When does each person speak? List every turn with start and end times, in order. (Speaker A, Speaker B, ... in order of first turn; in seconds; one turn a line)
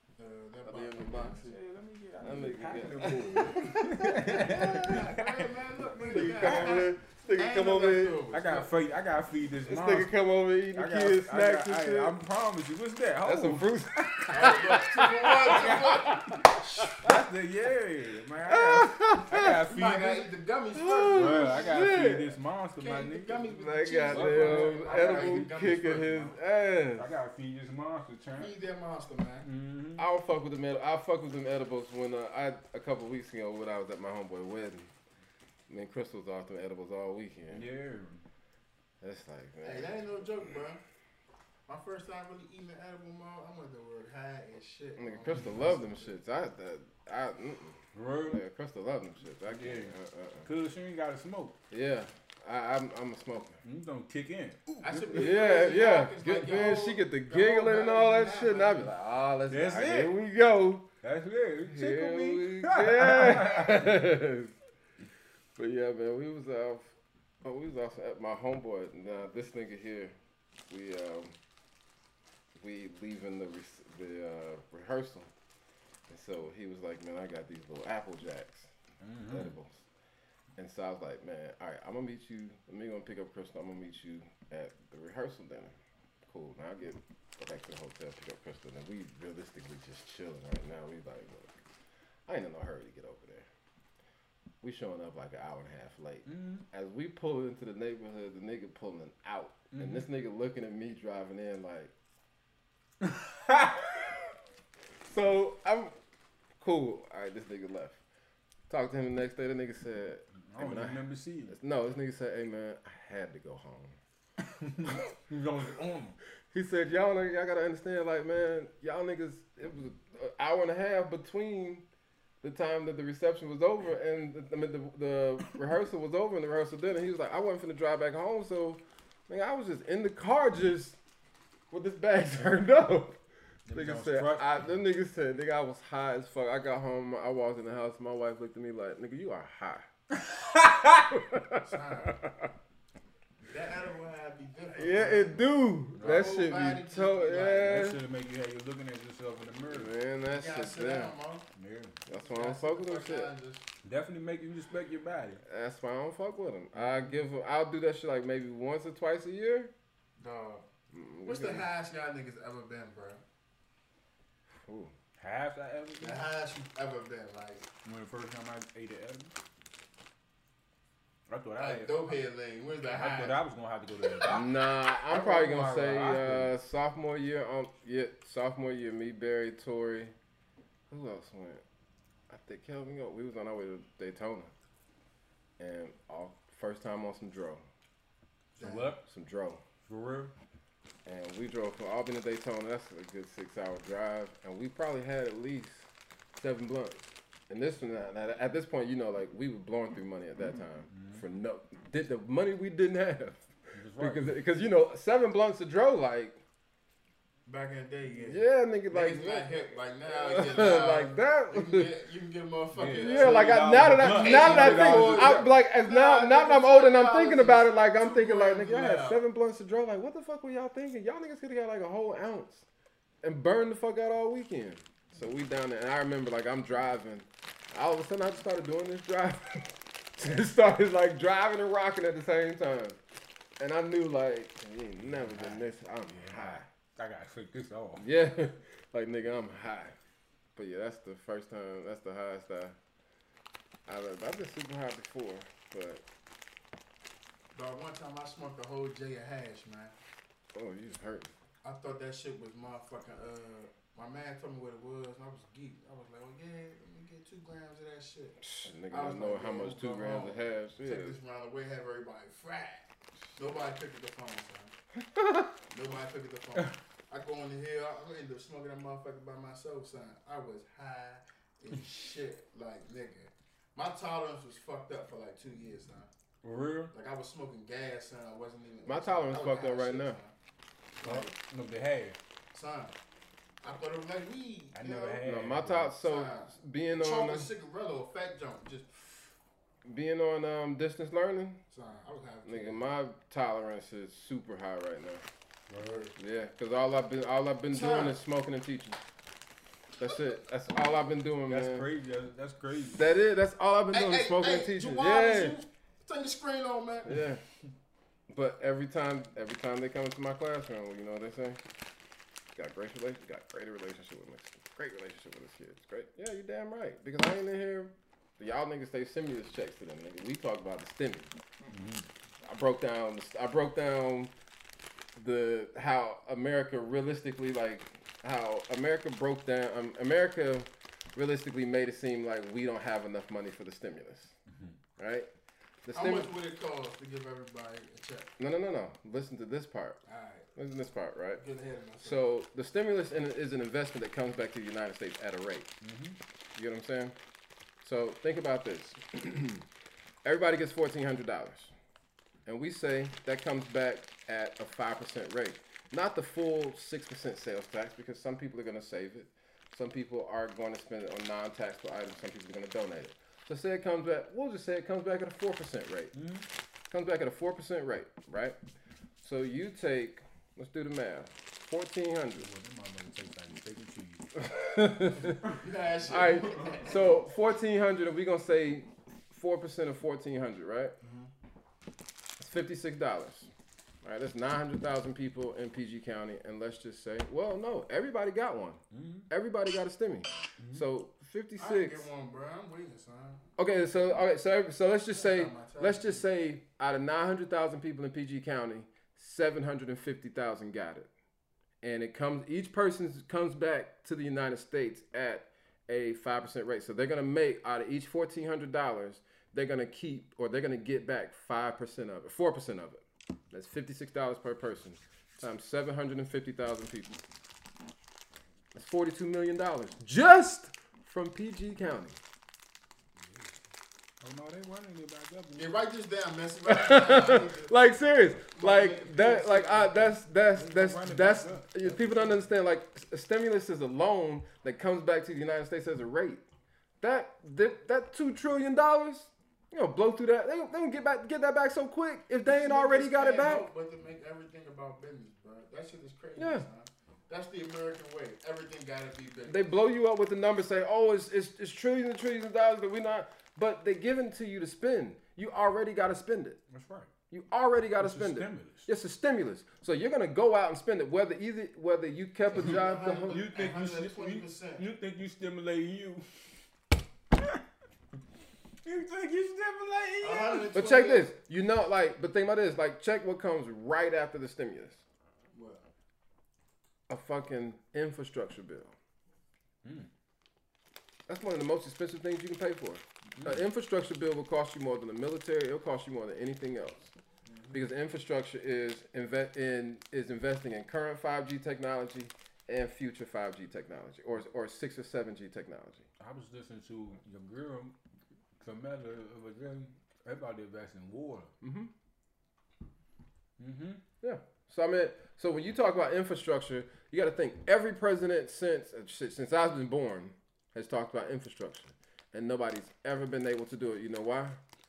Speaker A: 0.1-1.6
Speaker B: 0.6-1.4
Speaker C: 1.4-6.8
Speaker B: 2.2-5.1
Speaker A: 4.0-8.7
Speaker B: 6.1-8.2
Speaker C: 8.3-10.1
Speaker B: 9.7-12.2
Speaker C: 10.7-14.8
Speaker B: 13.2-16.6
Speaker A: 14.3-17.1
Speaker C: 15.4-16.2
Speaker C: 17.0-20.3
Speaker B: 18.5-19.6
Speaker A: 19.7-22.0
Speaker B: 20.7-22.3
Speaker C: 21.1-23.4
Speaker A: 22.8-26.4
Speaker B: 23.5-27.1
Speaker C: 24.1-25.8
Speaker C: 26.9-28.5
Speaker A: 28.4-29.5
Speaker C: 29.4-30.0
Speaker B: 30.0-34.9
Speaker B: 35.7-37.6
Speaker C: 37.5-38.2
Speaker B: 39.0-40.0
Speaker A: 39.6-40.8
Speaker A: 41.7-46.1
Speaker B: 45.0-50.5
Speaker C: 47.9-48.4
Speaker C: 49.5-51.5
Speaker B: 51.7-53.6
Speaker C: 53.6-55.4
Speaker A: 54.8-58.9
Speaker B: 55.1-60.9
Speaker C: 59.5-60.1
Speaker C: 61.0-64.0
Speaker B: 61.7-64.5
Speaker B: 65.5-70.2
Speaker B: 70.7-71.3
Speaker B: 72.5-75.3
Speaker B: 76.1-78.7
Speaker C: 79.0-79.5
Speaker B: 79.3-79.8
Speaker B: 80.6-85.7
Speaker B: 86.3-91.6
Speaker B: 92.3-93.5
Speaker B: 94.6-101.9
Speaker C: 96.2-96.6
Speaker C: 99.7-100.0
Speaker C: 103.0-104.2
Speaker B: 105.0-105.9
Speaker B: 106.6-108.0
Speaker B: 108.7-114.0
Speaker C: 110.4-111.5
Speaker C: 114.4-116.2
Speaker B: 116.5-121.8
Speaker B: 122.4-131.0
Speaker B: 131.7-133.2
Speaker C: 133.7-134.6
Speaker B: 133.7-139.9
Speaker C: 140.1-141.1
Speaker B: 141.1-142.5
Speaker A: 141.6-142.1
Speaker A: 143.4-145.4
Speaker B: 144.7-148.0
Speaker C: 146.0-146.3
Speaker A: 146.0-147.9
Speaker C: 147.6-149.9
Speaker B: 149.7-151.1
Speaker A: 150.3-151.5
Speaker C: 151.5-152.0
Speaker B: 152.1-153.3
Speaker A: 152.1-153.6
Speaker C: 153.8-155.4
Speaker B: 155.4-159.7
Speaker C: 156.7-157.1
Speaker A: 160.2-160.6
Speaker B: 160.9-161.7
Speaker A: 161.2-163.2
Speaker B: 164.6-164.9
Speaker C: 165.2-166.3
Speaker A: 166.0-167.7
Speaker C: 167.8-169.3
Speaker C: 171.3-172.1
Speaker A: 171.6-173.3
Speaker C: 172.9-174.5
Speaker B: 174.2-180.1
Speaker C: 175.1-176.5
Speaker B: 180.9-181.6
Speaker B: 182.3-184.5
Speaker B: 185.6-187.6
Speaker C: 188.5-189.0
Speaker A: 188.6-188.9
Speaker B: 189.1-189.6
Speaker C: 189.8-190.3
Speaker B: 191.0-203.4
Speaker C: 200.9-201.2
Speaker C: 203.7-204.3
Speaker B: 204.0-206.4
Speaker A: 207.4-219.2
Speaker B: 208.2-209.5
Speaker B: 210.1-211.9
Speaker C: 212.7-215.5
Speaker B: 213.0-222.7
Speaker B: 223.2-233.0
Speaker B: 233.6-236.7
Speaker C: 235.1-238.1
Speaker B: 238.0-239.9
Speaker B: 240.6-242.8
Speaker B: 243.9-246.0
Speaker A: 247.5-249.9
Speaker B: 250.5-251.3
Speaker A: 251.6-264.7
Speaker B: 258.4-261.1
Speaker B: 264.9-265.6
Speaker A: 265.7-276.1
Speaker C: 276.4-276.9
Speaker A: 276.9-280.3
Speaker B: 278.9-280.2
Speaker A: 281.0-281.3
Speaker C: 281.0-282.2
Speaker A: 282.5-282.9
Speaker A: 283.6-285.2
Speaker C: 284.7-285.9
Speaker B: 285.2-287.5
Speaker A: 286.0-288.9
Speaker B: 289.8-291.6
Speaker A: 291.7-292.8
Speaker B: 292.4-295.2
Speaker C: 295.7-296.1
Speaker A: 295.8-296.1
Speaker B: 296.1-299.0
Speaker A: 297.7-298.1
Speaker B: 300.0-301.9
Speaker C: 301.5-303.0
Speaker B: 302.9-305.6
Speaker A: 303.9-307.2
Speaker B: 307.1-307.4
Speaker B: 308.3-311.6
Speaker B: 312.5-321.3
Speaker C: 321.7-322.1
Speaker B: 322.4-324.3
Speaker B: 325.1-334.3
Speaker C: 334.5-334.8
Speaker B: 335.0-335.3
Speaker B: 335.8-336.3
Speaker A: 335.9-338.3
Speaker B: 338.4-340.0
Speaker A: 340.0-340.5
Speaker B: 340.5-341.4
Speaker A: 341.4-342.2
Speaker B: 342.0-345.7
Speaker C: 345.8-346.1
Speaker B: 346.5-347.1
Speaker B: 347.8-349.6
Speaker B: 350.2-351.7
Speaker B: 352.4-366.1
Speaker C: 366.1-366.4
Speaker B: 366.9-368.6
Speaker B: 369.2-372.5
Speaker C: 372.4-374.4
Speaker B: 374.4-375.4
Speaker A: 375.4-377.1
Speaker B: 376.1-380.9
Speaker A: 381.0-381.3
Speaker B: 382.4-383.5
Speaker B: 384.0-392.1
Speaker C: 388.9-389.3
Speaker C: 390.6-390.8
Speaker A: 391.6-393.4
Speaker B: 393.6-401.1
Speaker A: 395.1-396.2
Speaker B: 401.8-417.2
Speaker B: 418.7-422.2
Speaker C: 423.2-423.6
Speaker C: 424.2-425.7
Speaker A: 425.5-427.7
Speaker B: 426.6-436.4
Speaker A: 428.5-430.2
Speaker C: 430.5-431.6
Speaker A: 431.3-432.4
Speaker B: 437.0-443.7
Speaker A: 442.4-449.6
Speaker B: 446.4-446.6
Speaker B: 449.5-456.6
Speaker C: 456.7-457.1
Speaker B: 457.3-463.4
Speaker C: 458.0-458.9
Speaker A: 462.5-464.8
Speaker C: 462.6-466.5
Speaker C: 468.8-470.7
Speaker A: 470.2-471.3
Speaker B: 470.7-475.0
Speaker A: 475.5-475.8
Speaker B: 477.1-478.9
Speaker C: 479.8-480.1
Speaker B: 481.3-487.1
Speaker C: 483.4-483.6
Speaker A: 487.4-487.8
Speaker B: 487.7-496.1
Speaker C: 496.2-497.9
Speaker C: 498.6-501.5
Speaker B: 501.6-501.9
Speaker C: 503.6-504.0
Speaker B: 504.2-514.6